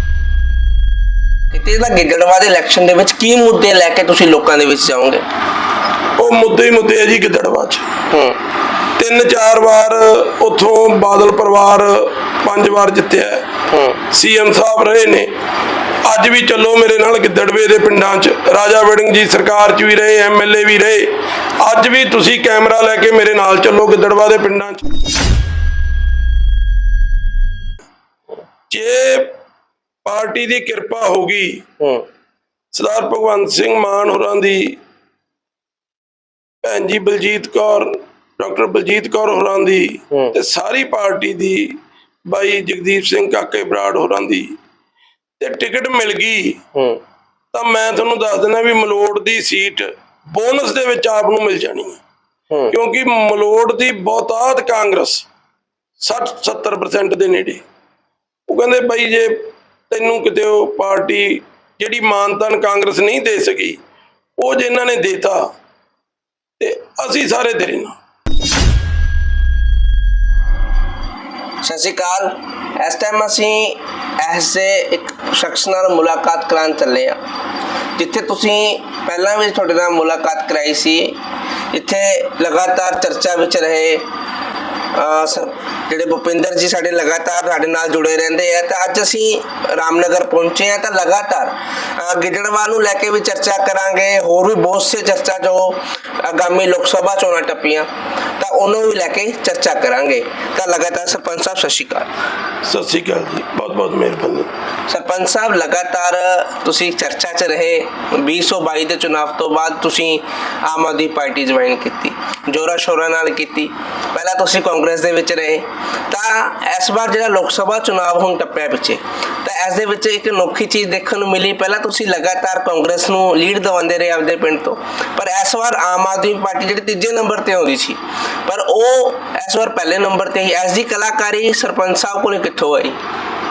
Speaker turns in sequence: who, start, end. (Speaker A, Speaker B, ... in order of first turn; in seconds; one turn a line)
Speaker A: 1.5-5.2
Speaker B: 6.2-7.9
Speaker A: 8.1-8.4
Speaker B: 9.0-13.5
Speaker A: 13.7-14.0
Speaker B: 14.1-15.3
Speaker B: 16.1-24.9
Speaker B: 28.7-29.4
Speaker B: 30.1-31.7
Speaker A: 31.8-32.0
Speaker B: 32.7-34.8
Speaker B: 36.6-44.6
Speaker B: 45.4-46.6
Speaker A: 46.8-47.0
Speaker B: 47.5-52.0
Speaker B: 52.7-55.3
Speaker B: 56.0-57.6
Speaker B: 58.5-63.8
Speaker B: 64.4-65.5
Speaker B: 66.6-68.0
Speaker A: 71.6-77.2
Speaker A: 78.0-81.2
Speaker A: 81.7-84.1
Speaker A: 84.9-102.1
Speaker B: 102.6-104.5
Speaker A: 104.9-133.0